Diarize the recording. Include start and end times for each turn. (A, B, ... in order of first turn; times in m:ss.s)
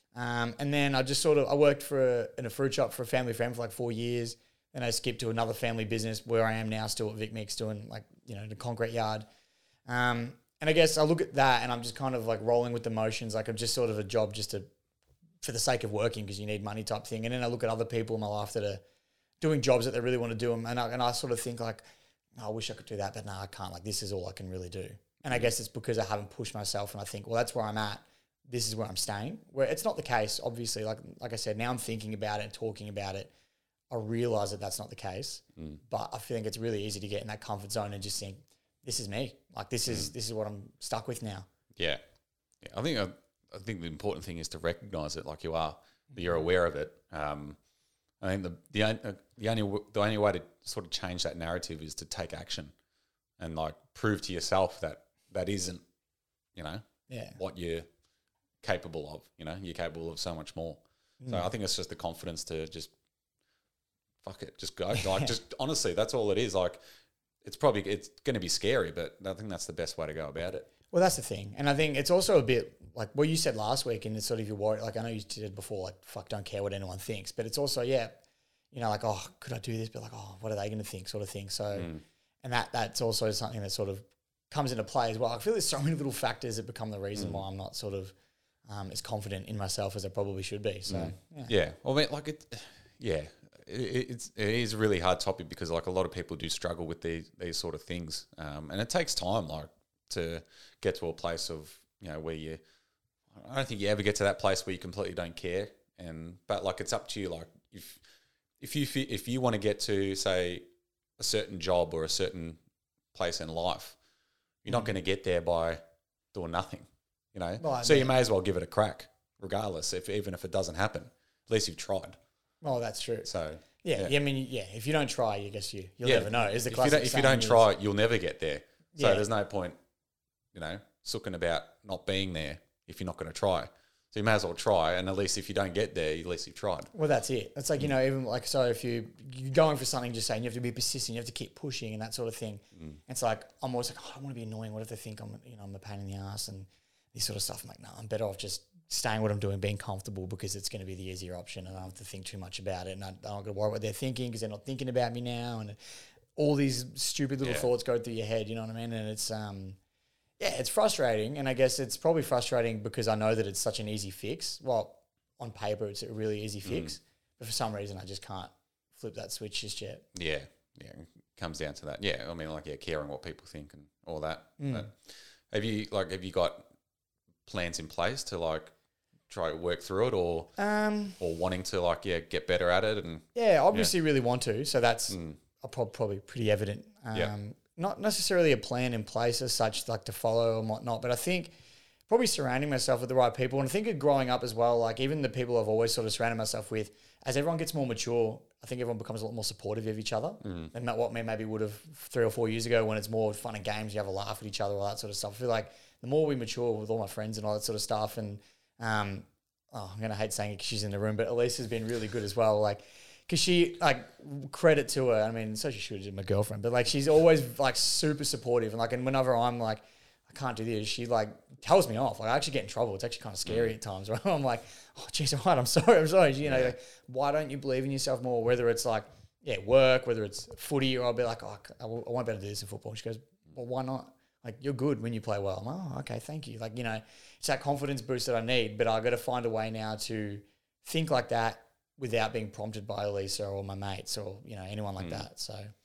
0:00.1-0:09.3 A
0:09.9-0:14.7 A
0:15.4-0:18.8 A
0:19.4-0:21.8 A
0:22.4-0:33.3 A
0:33.9-0:41.5 A
0:39.9-0:40.1 B
0:41.8-0:42.0 B
0:42.6-0:47.6 B
0:48.2-0:52.7 B
0:53.4-0:55.8 B
0:56.6-0:57.9 B
0:57.1-0:57.4 A
0:58.6-1:02.9 B
1:01.2-1:01.5 A
1:04.2-1:06.8 B
1:05.0-1:05.3 A
1:07.4-1:10.7 B
1:10.9-1:18.2 A
1:18.7-1:21.9 A
1:21.8-1:22.0 B
1:22.4-1:28.1 A
1:27.2-1:27.4 B
1:28.7-1:31.5 A
1:30.9-1:42.6 B
1:43.3-1:48.0 B
1:48.6-1:50.6 B
1:51.2-1:52.6 B
1:53.1-1:54.0 B
1:54.6-1:55.8 B
1:56.3-2:02.2 B
1:57.6-1:58.2 A
2:02.6-2:03.3 A
2:03.2-2:04.1 B
2:03.8-2:07.6 A
2:06.0-2:09.8 B
2:09.0-2:09.3 A
2:10.5-2:16.9 B
2:16.9-2:35.8 A
2:36.4-2:39.8 A
2:37.4-2:37.7 B
2:40.4-2:50.1 A
2:46.6-2:47.0 B
2:50.1-2:56.7 B
2:54.6-2:54.9 A
2:57.5-2:58.7 B
2:59.3-3:00.5 B
3:00.6-3:01.2 A
3:01.2-3:03.9 B
3:03.4-3:11.5 A
3:05.1-3:05.4 B
3:12.1-4:05.7 A
3:20.4-3:20.7 B
3:43.5-3:43.7 B
3:46.4-3:46.7 B
4:05.0-4:05.2 B